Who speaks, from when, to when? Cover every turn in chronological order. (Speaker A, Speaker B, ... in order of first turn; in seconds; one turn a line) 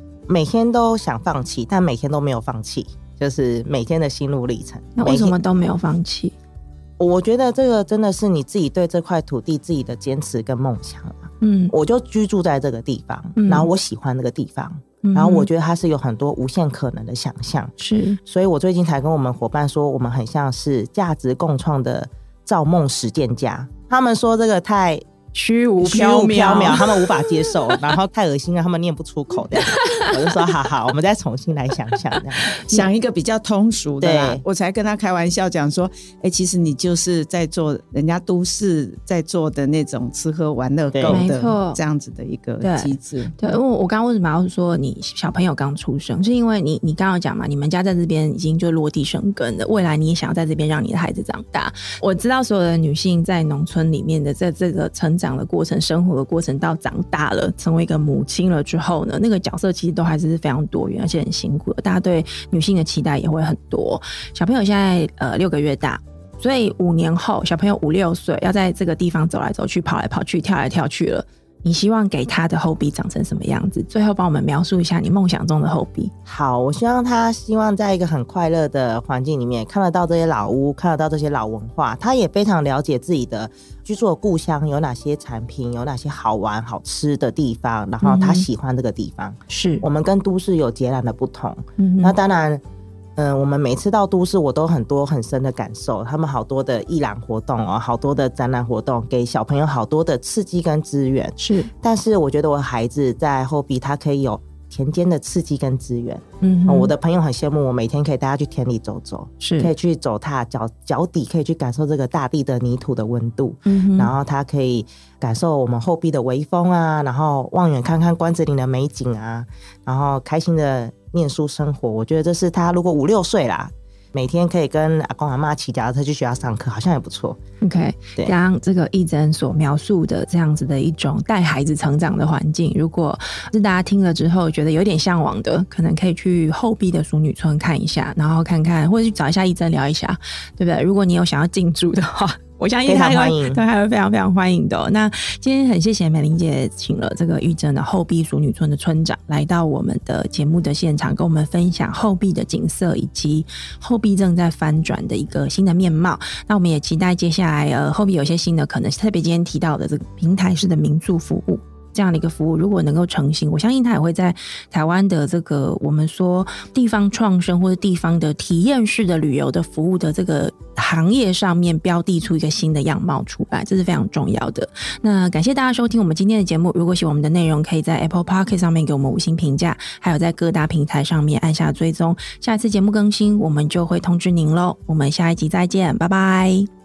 Speaker A: 0.3-5.4
Speaker B: 5.0-6.3
Speaker A: 7.0-17.7
Speaker B: 11.4-11.7
Speaker B: 13.4-13.7
Speaker B: 15.0-15.5
Speaker B: 17.8-18.2
Speaker A: 18.2-25.0
Speaker B: 25.3-27.8
Speaker A: 25.8-32.6
Speaker B: 29.6-30.4
Speaker C: 32.6-43.5
Speaker A: 34.0-34.4
Speaker A: 40.9-41.2
Speaker B: 41.1-41.8
Speaker B: 42.6-76.1
Speaker A: 76.3-92.6
Speaker B: 88.0-88.5
Speaker B: 89.5-89.8
Speaker B: 91.8-92.2
Speaker A: 93.2-127.4
Speaker B: 101.4-101.7
Speaker B: 106.4-106.9
Speaker B: 109.4-109.7
Speaker B: 113.7-114.1
Speaker B: 127.6-186.7
Speaker A: 142.8-143.6